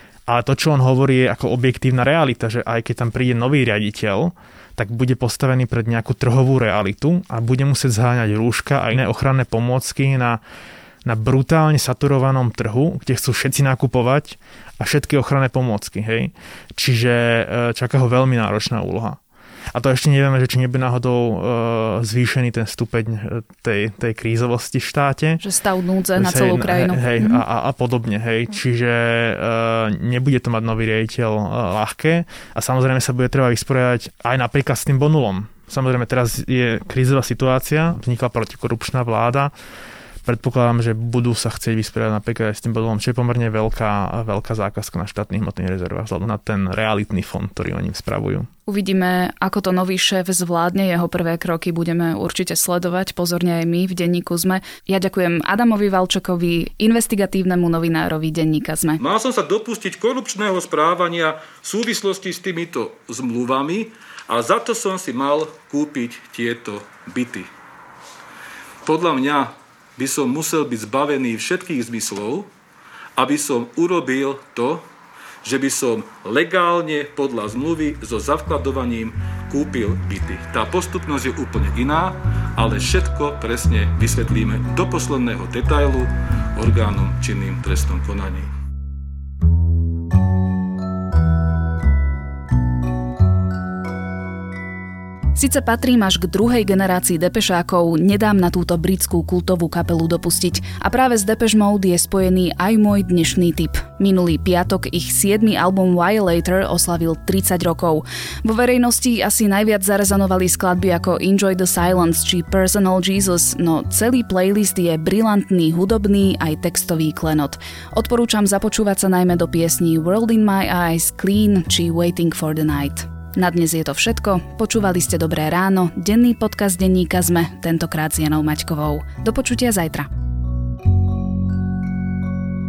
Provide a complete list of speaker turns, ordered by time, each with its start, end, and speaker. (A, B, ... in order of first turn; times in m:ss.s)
0:00.3-0:10.4 A
0:11.0-0:19.2 A
0:19.7-0:25.4 A
0:25.4-0:27.4 B
0:26.2-0:39.5 A
0:40.2-0:48.5 A
0:48.7-0:59.0 B
0:59.0-1:07.5 C
1:08.8-1:12.5 C
1:13.2-1:14.8 C
1:15.4-1:28.5 C
1:35.3-2:10.1 B